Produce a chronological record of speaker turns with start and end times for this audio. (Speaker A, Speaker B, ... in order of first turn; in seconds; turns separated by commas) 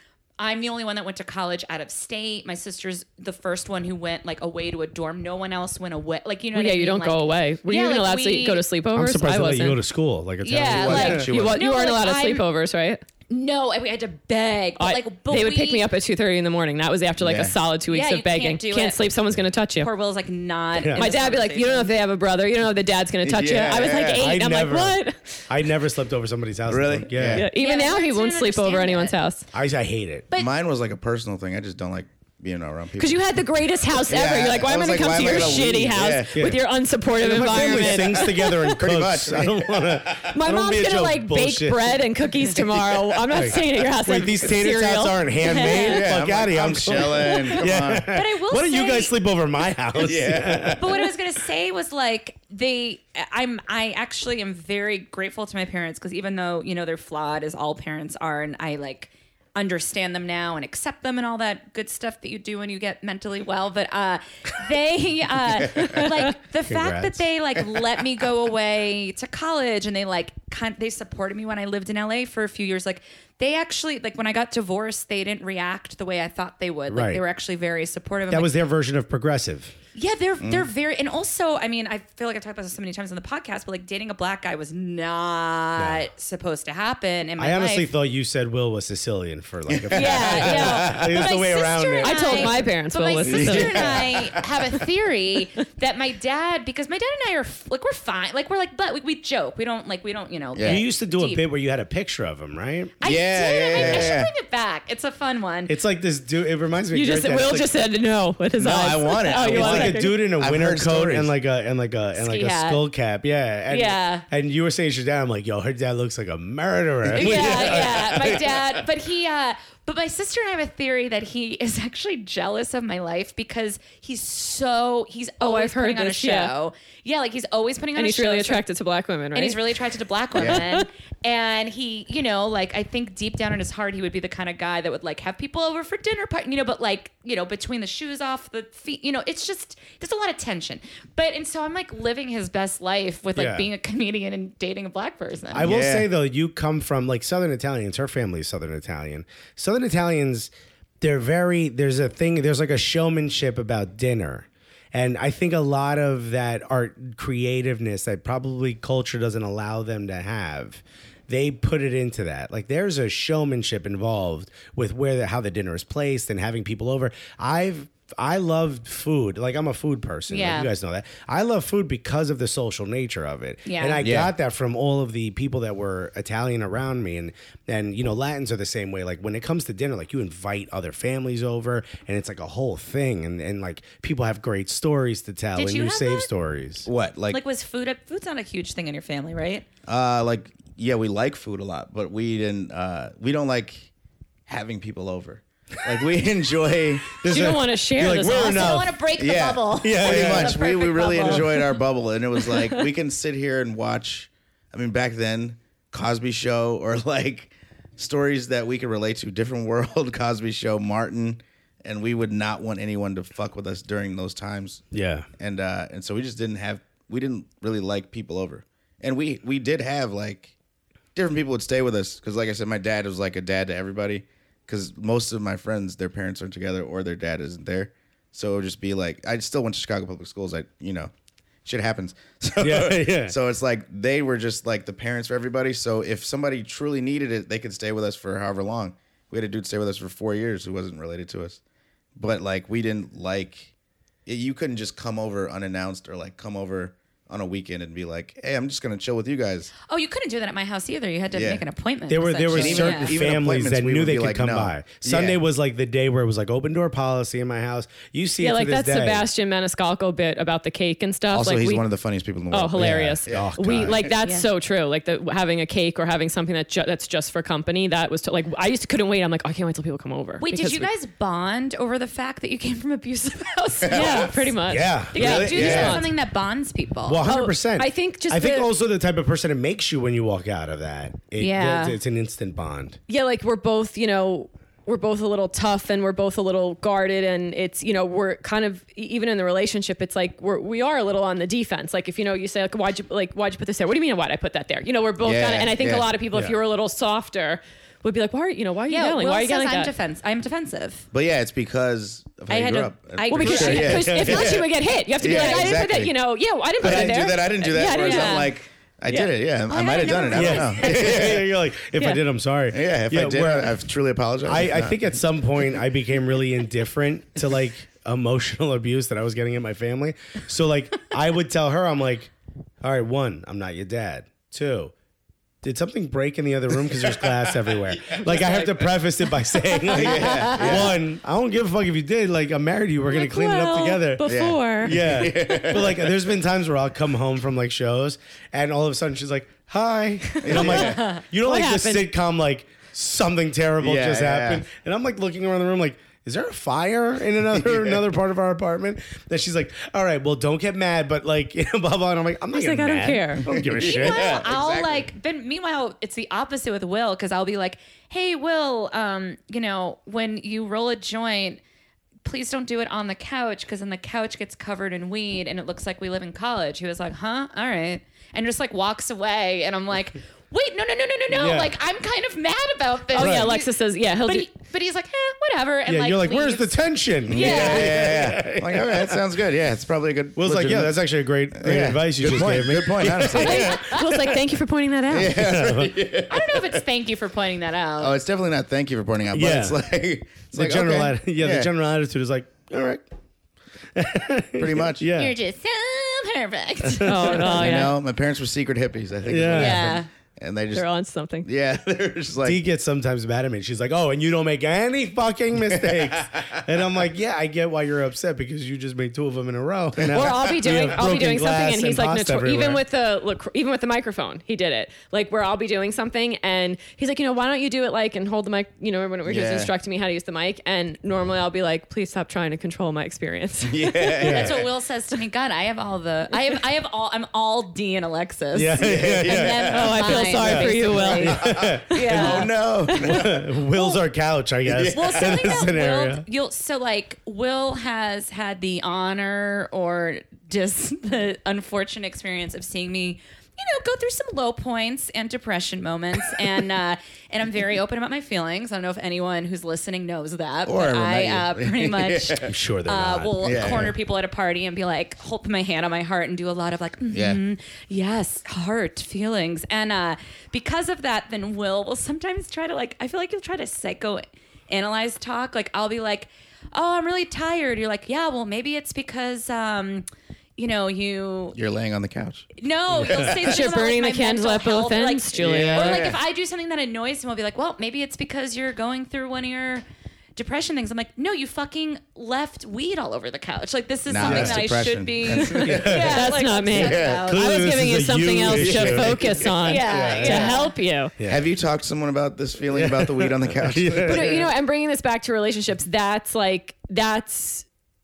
Speaker A: 0.4-8.6, Speaker B: 6.5-9.8, Speaker C: 8.9-11.3, Speaker A: 10.4-12.4, Speaker D: 10.6-11.6, Speaker B: 10.9-13.0, Speaker A: 13.3-15.9, Speaker B: 14.8-19.9, Speaker D: 17.2-17.6, Speaker A: 17.9-19.0, Speaker A: 19.8-21.9, Speaker C: 20.8-21.1, Speaker B: 20.9-25.5, Speaker D: 23.2-24.3, Speaker C: 24.1-27.5, Speaker D: 26.7-27.5, Speaker B: 27.3-29.4, Speaker A: 27.5-29.1, Speaker C: 29.5-30.3, Speaker D: 30.3-33.2, Speaker B: 33.0-38.8, Speaker D: 34.1-36.5, Speaker C: 36.3-36.6, Speaker C: 37.1-42.0, Speaker D: 37.5-40.3, Speaker B: 40.3-46.0, Speaker C: 43.3-51.0, Speaker D: 45.6-48.1, Speaker A: 48.1-49.1, Speaker D: 50.0-51.0, Speaker A: 50.8-78.5, Speaker C: 66.7-67.2, Speaker C: 76.9-77.2, Speaker C: 78.3-79.7, Speaker A: 79.9-87.9, Speaker D: 80.4-80.7, Speaker C: 85.8-86.0, Speaker C: 87.4-92.7, Speaker D: 89.7-91.3, Speaker A: 89.9-101.4, Speaker B: 92.0-93.9, Speaker D: 93.2-94.8, Speaker D: 100.5-100.8, Speaker C: 100.6-102.9, Speaker A: 103.0-105.8, Speaker D: 103.0-104.3, Speaker C: 103.7-104.2, Speaker C: 105.7-107.7, Speaker B: 106.9-110.2, Speaker D: 108.6-111.3, Speaker C: 109.3-118.4, Speaker A: 112.1-112.8, Speaker A: 113.7-114.2, Speaker D: 117.0-118.8, Speaker A: 117.1-128.6, Speaker B: 125.4-126.5, Speaker B: 127.9-129.6, Speaker A: 129.3-145.7, Speaker D: 130.3-130.6, Speaker B: 130.4-130.8, Speaker C: 143.3-143.7, Speaker C: 145.5-186.9, Speaker D: 145.6-146.1, Speaker A: 170.3-170.7, Speaker A: 173.7-174.0, Speaker D: 174.0-174.3, Speaker A: 185.5-186.3, Speaker D: 186.8-187.4, Speaker A: 187.3-189.6, Speaker D: 189.8-193.9, Speaker D: 194.5-197.2, Speaker C: 197.1-199.0, Speaker B: 197.2-198.8, Speaker A: 198.1-201.8, Speaker D: 199.2-214.8, Speaker C: 199.8-200.6, Speaker C: 201.2-201.5, Speaker C: 214.9-215.3, Speaker D: 215.4-220.5, Speaker D: 221.1-231.1, Speaker D: 231.6-241.6, Speaker C: 232.6-233.3, Speaker D: 242.2-243.7, Speaker D: 244.2-249.7, Speaker A: 249.8-253.1, Speaker D: 251.3-251.6, Speaker C: 252.1-259.3, Speaker D: 252.5-255.4, Speaker B: 258.4-261.8, Speaker D: 261.3-264.1, Speaker B: 262.5-270.9, Speaker C: 262.8-264.0, Speaker A: 264.2-264.5, Speaker A: 270.4-274.5, Speaker D: 273.8-274.3, Speaker B: 273.9-276.1, Speaker C: 274.7-276.0, Speaker A: 275.1-277.3, Speaker D: 275.1-276.1, Speaker C: 277.0-283.0, Speaker B: 277.2-278.7, Speaker A: 281.4-282.0, Speaker B: 283.1-299.9, Speaker D: 295.2-296.1, Speaker A: 298.9-301.1, Speaker D: 301.1-304.7, Speaker A: 302.5-304.6, Speaker B: 303.3-308.5, Speaker C: 303.8-304.5, Speaker D: 305.2-306.1, Speaker A: 305.2-305.8, Speaker D: 306.8-311.5, Speaker C: 306.8-307.1, Speaker A: 307.9-308.5, Speaker A: 309.7-311.3, Speaker C: 310.3-313.8, Speaker D: 312.7-315.0, Speaker C: 314.4-322.3, Speaker C: 322.8-324.9, Speaker C: 325.6-334.3, Speaker D: 327.9-328.9, Speaker D: 329.9-330.9, Speaker B: 333.1-335.0, Speaker D: 334.2-336.3, Speaker C: 334.8-354.4, Speaker D: 340.4-341.0, Speaker B: 340.5-342.1, Speaker D: 343.8-344.6, Speaker D: 347.6-347.9, Speaker B: 352.5-353.5, Speaker D: 353.5-355.1, Speaker A: 353.7-361.6, Speaker A: 362.2-373.7, Speaker C: 371.3-371.7, Speaker B: 373.1-374.5, Speaker C: 373.1-373.5, Speaker A: 374.2-376.8, Speaker C: 375.9-379.2, Speaker A: 377.3-378.1, Speaker D: 377.3-383.9, Speaker C: 380.4-384.4, Speaker B: 383.4-385.4, Speaker A: 383.5-383.8, Speaker D: 385.1-386.8, Speaker C: 385.3-386.0, Speaker A: 386.3-388.1, Speaker D: 388.0-391.7, Speaker C: 389.3-389.8, Speaker C: 390.5-393.0, Speaker C: 393.9-395.4, Speaker D: 394.6-395.1, Speaker A: 395.1-397.8, Speaker C: 396.8-397.4, Speaker B: 397.0-397.9, Speaker D: 397.4-400.9, Speaker C: 399.2-400.0, Speaker A: 399.5-400.1, Speaker B: 400.7-401.5, Speaker D: 401.4-402.6, Speaker C: 402.4-412.8, Speaker D: 405.7-406.6, Speaker D: 410.0-410.7, Speaker B: 410.1-424.2, Speaker D: 419.2-419.7, Speaker D: 423.6-424.5, Speaker A: 424.2-432.5, Speaker C: 424.2-424.6, Speaker C: 428.5-436.2, Speaker D: 428.8-430.2, Speaker B: 429.7-431.4, Speaker D: 431.3-433.4, Speaker B: 431.9-433.2, Speaker D: 434.6-435.6, Speaker A: 434.9-470.1, Speaker D: 450.6-452.5, Speaker C: 452.4-453.9, Speaker D: 453.4-453.9, Speaker D: 457.1-457.4, Speaker A: 470.6-471.6, Speaker D: 471.5-473.6, Speaker A: 472.6-479.8, Speaker B: 473.4-476.0, Speaker D: 475.4-476.2, Speaker A: 480.4-487.5, Speaker D: 484.1-487.3, Speaker C: 484.2-484.6, Speaker C: 485.4-486.3, Speaker B: 485.5-491.1, Speaker C: 487.0-490.6, Speaker D: 488.4-490.1, Speaker A: 489.6-490.7, Speaker C: 491.2-491.4, Speaker D: 491.3-494.5, Speaker C: 492.7-494.4, Speaker B: 494.0-497.6